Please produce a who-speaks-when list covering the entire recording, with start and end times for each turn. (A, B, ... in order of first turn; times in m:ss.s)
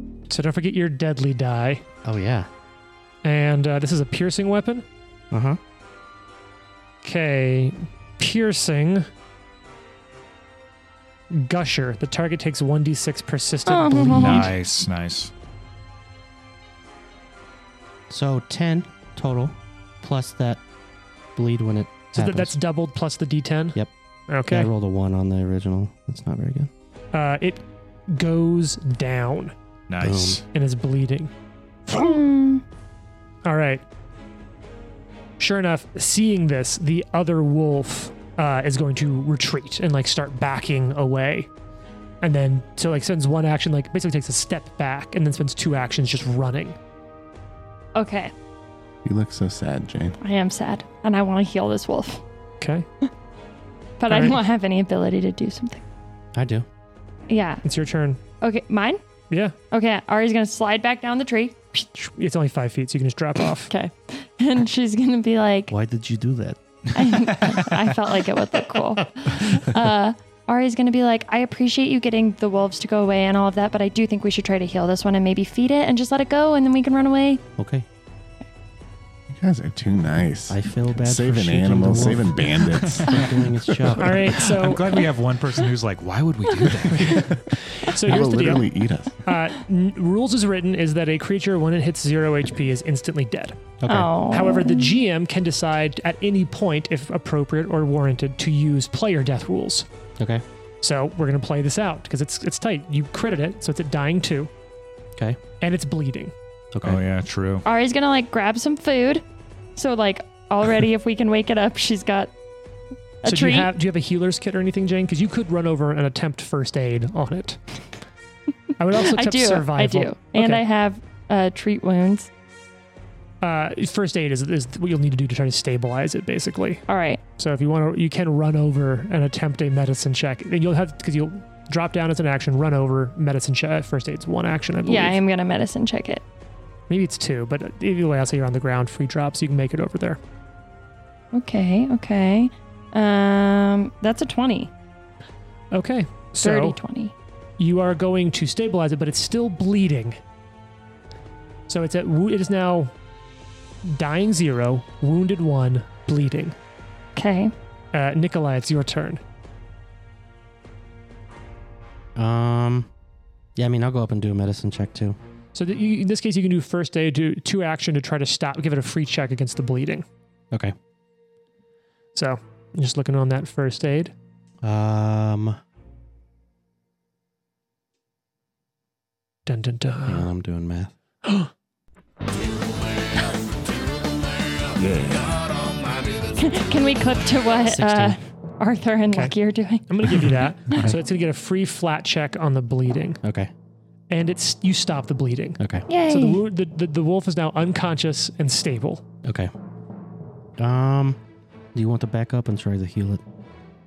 0:00.3-0:01.8 A
0:02.0-0:02.5 B
0:03.2-0:04.8 A
0:05.3-0:05.6 B
0:07.0-0:09.1 A
0:11.3-0:14.5 A
0:13.6-0:14.5 C
0:14.1-0:15.3 D
0:18.1-0:20.6 B
0:21.4-0:22.6 B
0:22.1-0:24.7 A
0:24.4-0:26.7 B
0:27.1-0:29.5 A
0:29.9-0:30.4 D
0:30.0-0:30.4 B
0:30.5-0:31.3 A
0:31.9-0:32.2 A
0:31.9-0:32.6 C
0:33.4-0:33.8 A
0:35.4-0:41.5 A
0:42.2-0:46.8 A
0:47.9-0:48.3 C
0:49.0-0:50.2 E
0:50.2-0:52.2 C
0:52.6-0:52.8 A
0:54.0-0:55.8 C
0:54.1-0:54.4 A
0:56.3-0:56.6 B
0:57.3-0:57.6 C
0:57.6-0:58.2 A
0:58.4-0:59.0 C
0:59.3-0:59.5 A
0:59.7-1:01.9 C
1:02.0-1:03.7 A
1:03.6-1:05.7 C
1:05.7-1:06.6 B
1:06.9-1:17.4 C
1:07.4-1:07.6 D
1:17.6-1:17.8 B
1:19.3-1:23.9 E
1:20.5-1:24.3 B
1:22.8-1:23.2 D
1:24.0-1:25.0 A
1:24.3-1:27.3 D
1:26.9-1:28.7 A
1:27.0-1:27.4 E
1:28.0-1:29.2 E
1:29.2-1:39.9 A
1:33.8-1:34.1 B
1:33.9-1:35.0 C
1:40.8-1:44.5 A
1:45.6-1:46.3 A
1:46.7-1:47.0 B
1:46.8-1:47.6 D
1:47.6-1:49.2 C
1:49.8-1:52.3 C
1:53.2-1:53.7 C
1:53.2-1:57.6 A
1:58.8-2:00.6 A
1:58.9-2:02.3 C
2:03.4-2:06.8 A
2:06.9-2:07.2 C
2:07.4-2:15.2 A
2:14.8-2:16.2 C
2:16.9-2:20.2 A
2:21.3-2:24.7 C
2:25.7-2:26.8 A
2:26.4-2:27.1 C
2:27.6-2:30.2 A
2:31.7-2:32.9 A
2:33.8-2:36.6 A
2:37.2-2:37.5 C
2:37.9-2:39.2 A
2:42.2-2:42.9 B
2:43.6-2:45.2 B
2:45.5-2:50.0 A
2:52.1-2:54.1 A
2:54.6-2:55.6 B
2:59.4-3:00.3 A
3:00.0-3:00.9 B
3:01.2-3:01.5 A
3:04.9-3:05.3 E
3:06.3-3:10.3 C
3:07.6-3:08.2 B
3:09.9-3:13.2 A
3:13.2-3:13.5 B
3:14.1-3:19.0 A
3:15.6-3:15.8 B
3:15.9-3:16.4 C
3:19.2-3:19.5 B
3:20.6-3:21.2 B
3:21.7-3:23.2 B